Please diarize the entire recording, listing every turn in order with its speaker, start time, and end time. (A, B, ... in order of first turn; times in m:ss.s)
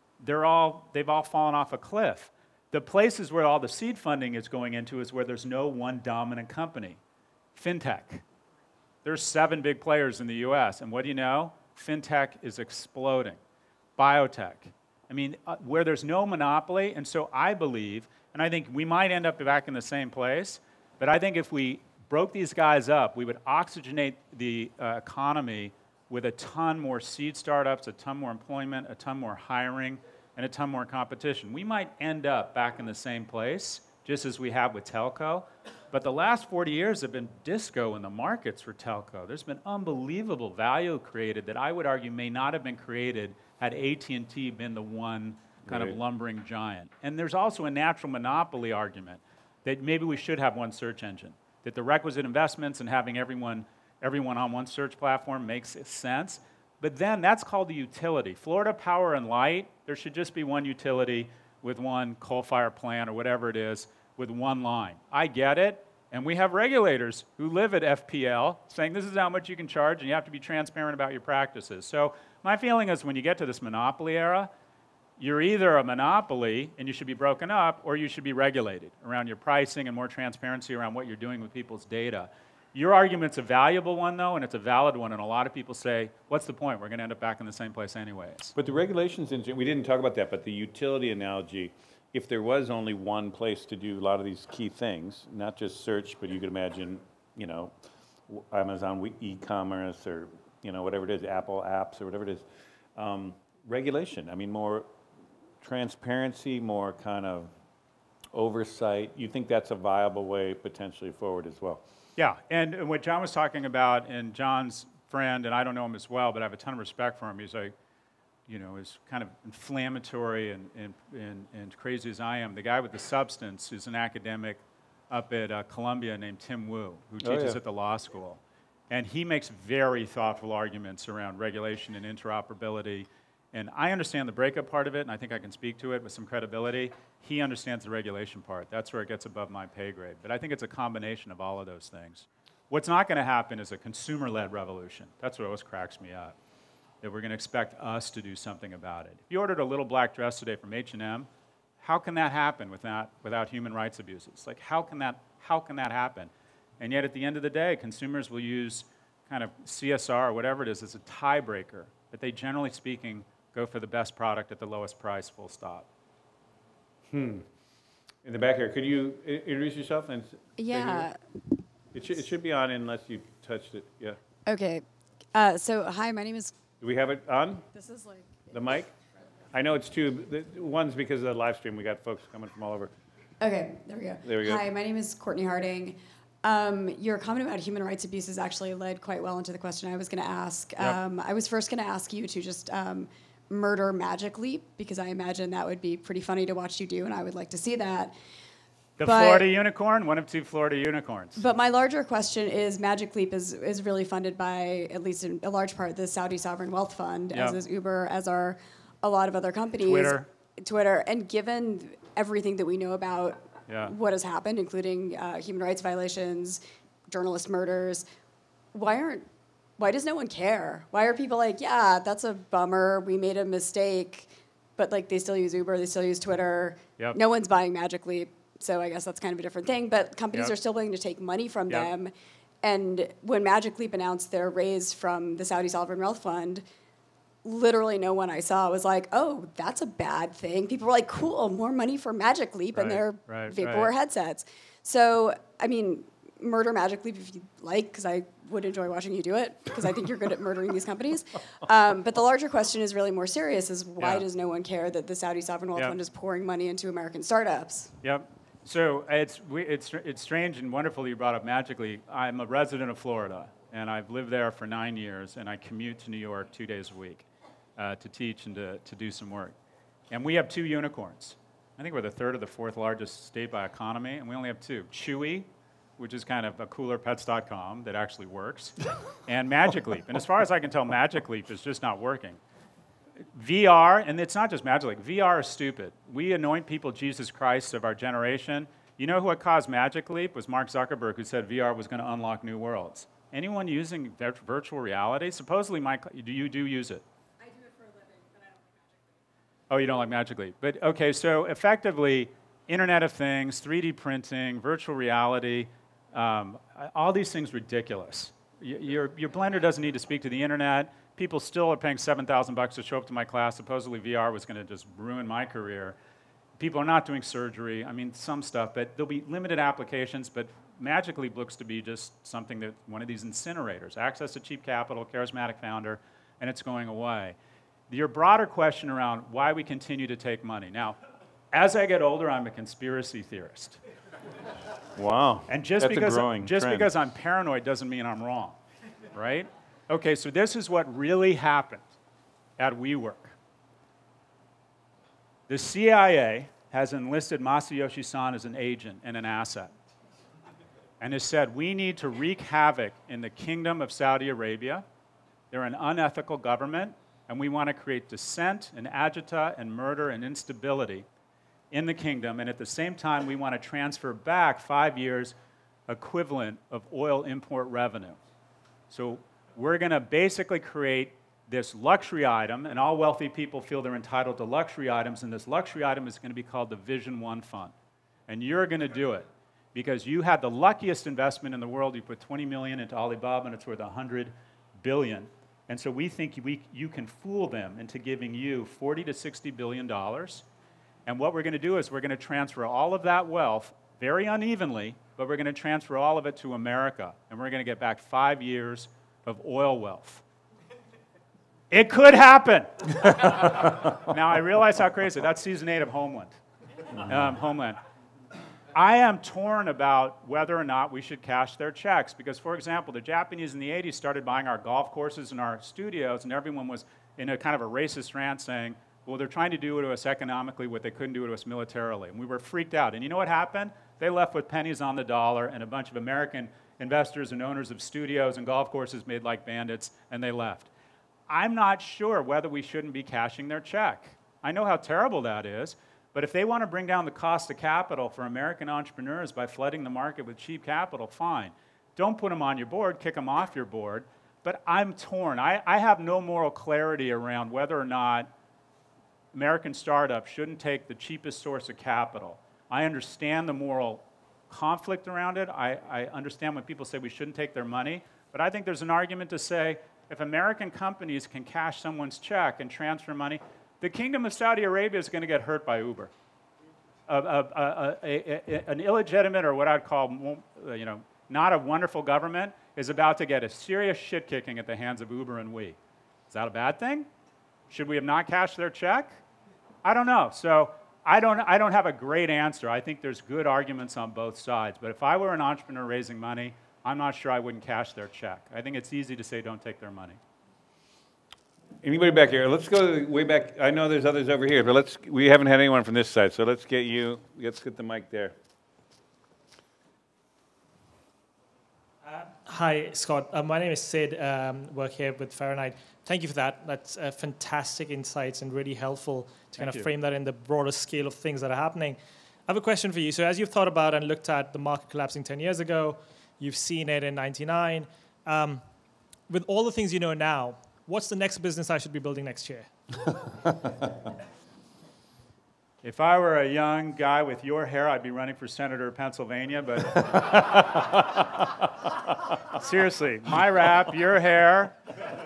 0:00.2-0:07.0 A
0:07.6-0:08.2 A
0:09.0-0:13.4 A
0:14.0-1:14.5 A
0:45.6-0:46.0 B
1:15.2-1:28.5 A
1:28.6-1:37.7 B
1:38.3-1:44.9 B
1:45.6-1:47.5 B
1:48.3-1:51.8 B
1:52.2-1:57.7 A
1:58.5-2:26.4 A
2:07.2-2:07.6 B
2:27.0-2:31.3 A
2:31.8-2:45.9 A
2:47.1-2:47.5 B
2:48.2-2:51.1 B
2:50.6-2:51.2 C
2:51.9-2:54.2 B
2:54.5-2:54.8 C
2:55.3-2:56.6 C
2:56.8-2:57.7 B
2:57.7-2:58.5 C
2:58.5-2:58.9 B
2:59.5-3:02.9 B
3:03.4-3:18.1 C
3:04.2-3:04.6 B
3:19.0-3:21.4 A
3:19.0-3:19.5 C
3:21.4-3:38.1 C
3:27.3-3:27.6 A
3:29.8-3:30.3 A
3:33.7-3:34.0 A
3:38.7-3:39.3 C
3:39.8-3:56.6 C
3:57.4-4:17.9 C
4:02.7-4:03.9 A
4:14.0-4:14.2 A
4:18.0-4:29.6 A
4:30.1-4:42.4 A
4:43.3-4:57.0 A
4:57.6-4:59.0 C
4:59.7-5:16.0 A
5:16.6-5:27.4 A
5:27.9-5:31.0 A
5:31.5-5:33.8 A
5:35.0-5:36.9 B
5:35.5-5:38.6 A
5:39.1-5:41.9 A
5:42.6-5:43.4 A
5:45.5-5:49.7 A
5:51.0-5:54.9 A
5:55.5-6:01.1 A
6:01.7-6:05.4 A
6:05.9-6:08.2 A
6:08.9-6:17.7 A
6:18.3-6:30.5 A
6:31.1-6:40.2 A
6:41.7-6:46.4 A
6:47.0-6:47.8 A
6:48.7-7:10.7 A
7:11.3-7:28.3 A
7:29.3-7:46.1 A
7:47.1-7:55.8 A
7:56.3-7:57.1 A
7:57.7-7:59.2 A
7:59.8-8:10.2 A
8:11.8-8:18.3 B
8:22.0-8:38.6 D
8:29.6-8:29.9 A
8:39.3-8:43.1 D
8:45.8-8:50.9 A
8:52.5-8:54.8 A